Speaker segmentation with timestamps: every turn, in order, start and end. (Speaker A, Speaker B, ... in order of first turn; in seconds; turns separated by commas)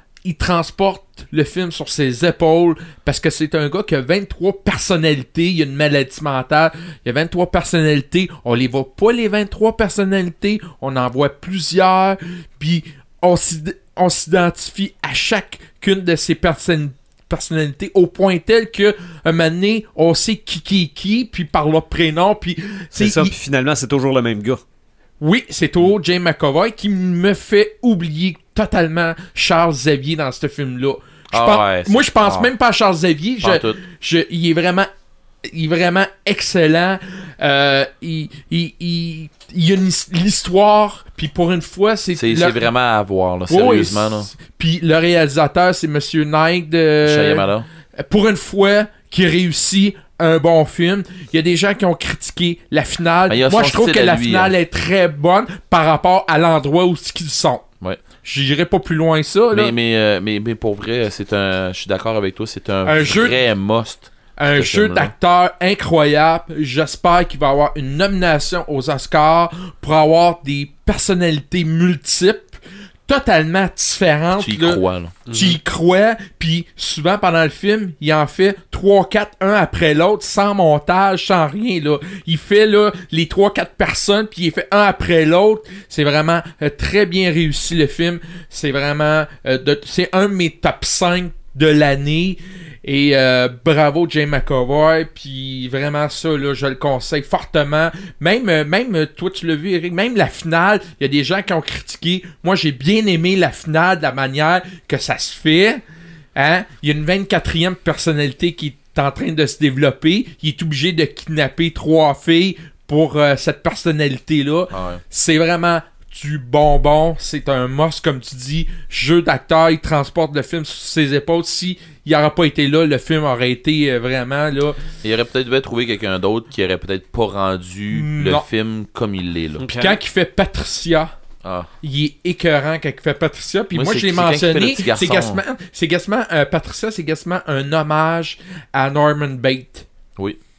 Speaker A: 0.2-23.3, Speaker B: 22.9-24.6, Speaker A: 25.2-34.9, Speaker C: 31.3-32.5, Speaker C: 33.4-33.8, Speaker A: 35.5-42.7, Speaker C: 42.2-44.3, Speaker A: 43.5-57.6, Speaker C: 47.0-47.7, Speaker C: 53.3-54.5, Speaker A: 58.2-59.8, Speaker C: 59.5-65.1, Speaker A: 62.9-63.4, Speaker A: 64.4-105.8, Speaker C: 74.3-75.2, Speaker B: 75.3-75.6, Speaker A: 106.3-124.8, Speaker C: 114.7-115.0, Speaker C: 125.0-129.7, Speaker A: 127.9-128.5, Speaker B: 129.6-130.0, Speaker A: 129.8-131.1, Speaker C: 131.4-131.7, Speaker A: 131.8-139.9, Speaker C: 133.7-135.4